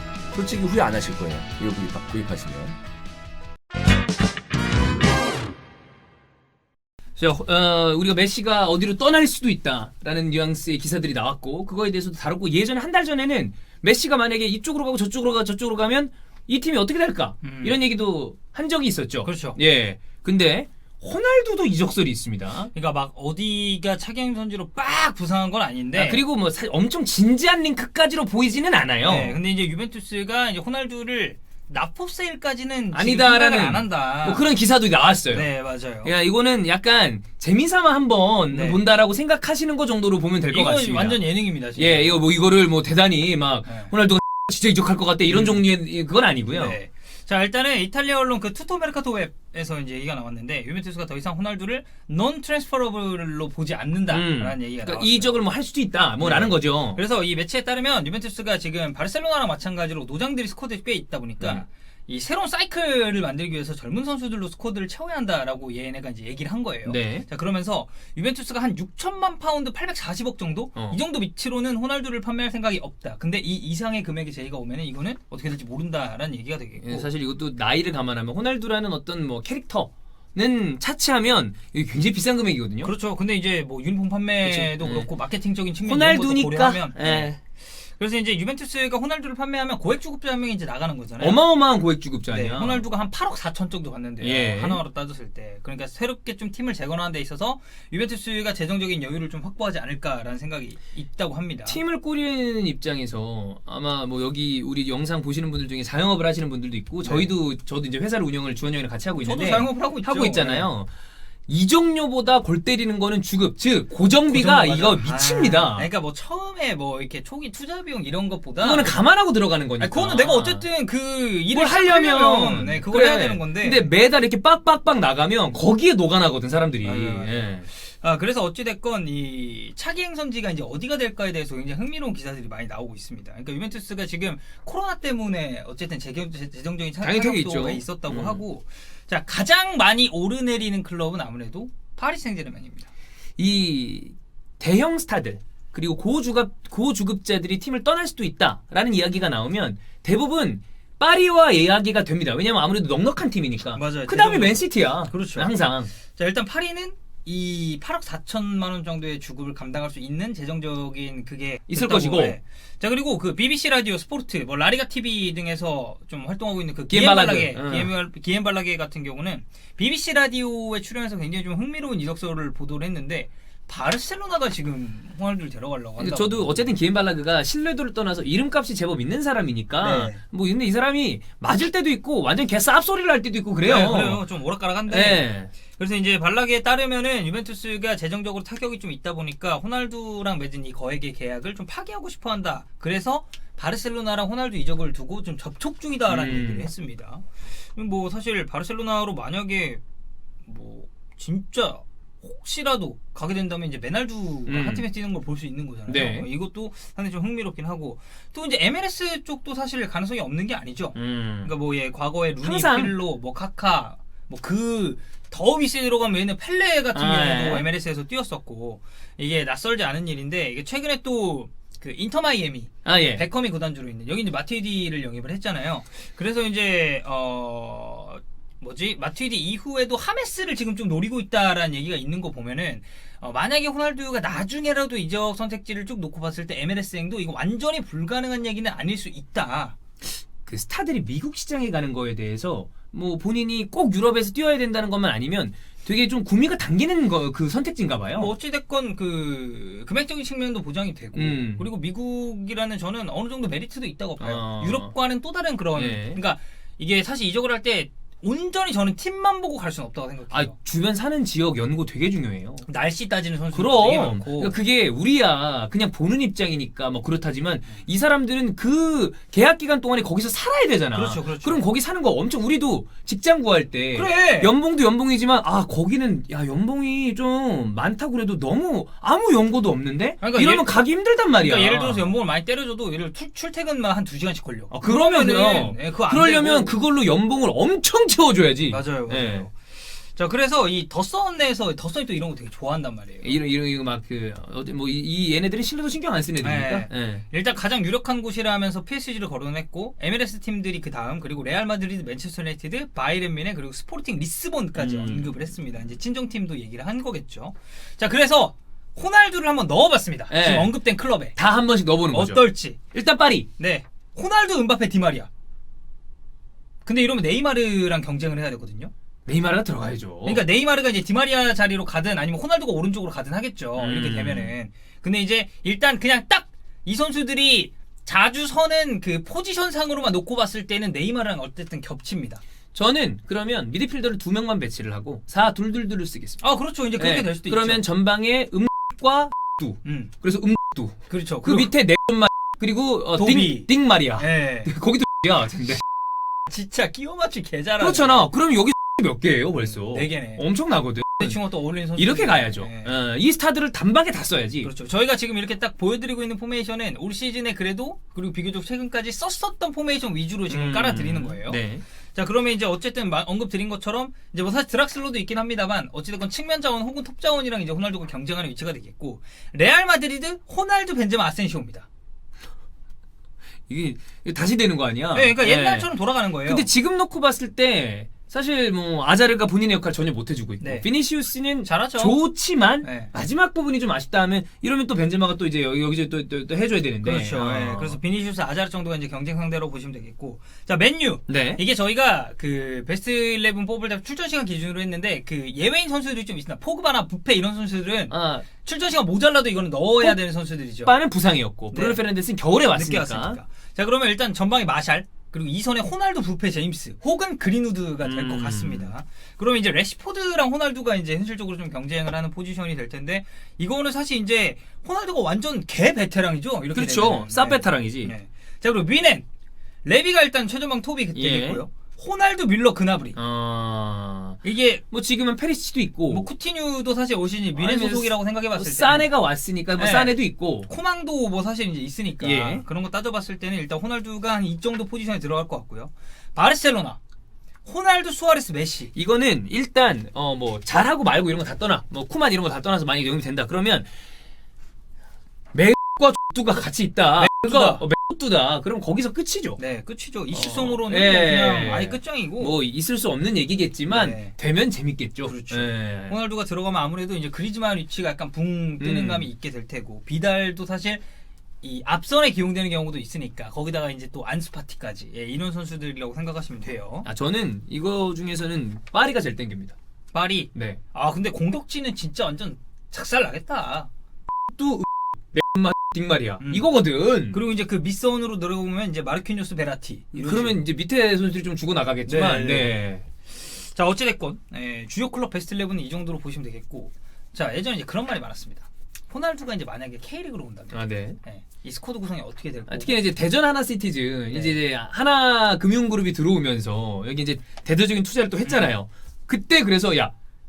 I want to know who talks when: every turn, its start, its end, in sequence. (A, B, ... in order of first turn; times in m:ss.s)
0:00.3-0:02.8 A
0:07.2-0:22.7 B
0:17.4-0:17.8 C
0:19.2-0:19.6 C
0:22.7-0:26.2 C
0:25.9-0:29.4 B
0:29.0-0:34.4 C
0:32.9-0:35.5 B
0:35.2-0:36.1 C
0:36.0-0:46.8 B
0:38.5-0:38.8 C
0:40.5-0:42.2 C
0:43.6-0:43.9 C
0:45.3-0:45.6 C
0:46.5-0:55.4 C
0:54.1-0:57.0 B
0:56.2-1:17.1 C
1:06.8-1:07.2 B
1:16.8-1:22.9 B
1:22.8-1:31.4 C
1:24.4-1:25.1 B
1:25.8-1:27.4 B
1:31.2-1:32.8 B
1:32.3-1:41.8 C
1:34.2-1:34.8 B
1:41.6-1:50.9 B
1:47.0-1:47.3 C
1:49.2-1:50.7 C
1:51.5-1:55.9 B
1:54.3-1:59.0 C
1:58.6-2:00.6 B
1:59.8-2:03.9 C
2:01.5-2:07.7 B
2:06.8-2:22.9 C
2:17.0-2:18.4 B
2:23.4-2:35.9 B
2:33.7-2:56.7 C
2:41.7-2:42.4 B
2:46.9-2:47.9 B
2:56.0-3:04.2 B
2:59.8-3:00.2 C
3:03.6-3:19.8 C
3:04.9-3:05.5 B
3:16.1-3:16.7 B
3:20.4-3:59.8 C
3:24.5-3:24.8 B
3:25.9-3:26.3 B
3:30.9-3:31.5 B
3:32.4-3:32.9 B
3:36.9-3:37.6 B
3:42.8-3:43.2 B
4:00.4-4:08.3 B
4:08.1-4:20.5 C
4:11.1-4:11.6 B
4:14.2-4:14.9 B
4:15.7-4:16.2 B
4:20.3-4:22.6 B
4:22.6-4:24.6 C
4:23.5-4:42.1 B
4:30.9-4:31.6 C
4:33.9-4:34.5 C
4:40.2-4:46.8 C
4:44.7-4:49.5 B
4:48.7-4:53.4 C
4:53.2-4:57.2 B
4:56.4-5:11.4 C
5:04.8-5:05.4 B
5:10.3-5:10.8 B
5:11.3-5:13.5 B
5:12.1-5:12.8 C
5:13.6-5:15.3 C
5:16.8-5:18.9 C
5:19.3-5:20.4 B
5:20.2-5:32.4 C
5:23.8-5:24.5 B
5:32.7-5:36.4 B
5:36.4-5:37.9 C
5:37.0-5:45.8 B
5:39.8-5:40.1 C
5:41.1-5:41.7 C
5:43.1-5:44.7 C
5:46.5-5:48.2 C
5:47.8-5:51.4 B
5:49.6-5:50.4 C
5:51.2-5:53.0 C
5:52.0-5:54.7 B
5:54.6-6:11.9 C
6:00.5-6:01.8 B
6:13.7-6:28.0 B
6:15.1-6:16.7 C
6:20.6-6:20.9 C
6:21.6-6:22.2 C
6:22.8-6:23.1 C
6:27.0-6:41.0 C
6:31.3-6:31.6 B
6:38.1-6:38.4 B
6:40.8-6:43.4 B
6:41.7-6:42.0 C
6:42.6-6:59.2 C
6:48.0-6:48.9 B
6:56.7-6:58.1 B
6:59.8-7:03.2 C
7:01.1-7:01.6 B
7:03.2-7:04.4 B
7:04.4-7:04.8 C
7:04.9-7:06.3 B
7:06.1-7:09.1 C
7:07.6-7:10.7 B
7:09.7-7:17.0 C
7:12.2-7:12.6 B
7:17.6-7:18.9 C
7:18.9-7:23.9 B
7:25.5-7:29.6 B
7:27.2-7:27.8 C
7:29.6-7:32.6 C
7:30.3-7:36.2 B
7:33.9-7:34.3 C
7:35.2-7:41.0 C
7:38.8-7:39.3 B
7:41.6-7:47.1 C
7:47.0-7:49.7 B
7:50.1-7:53.9 C
7:54.5-7:57.4 B
7:56.4-7:56.7 C
7:57.3-8:00.6 C
8:00.1-8:03.0 B
8:02.0-8:02.8 C
8:03.3-8:13.0 C
8:10.7-8:11.2 B
8:12.7-8:20.1 B
8:14.3-8:14.6 C
8:18.4-8:18.7 C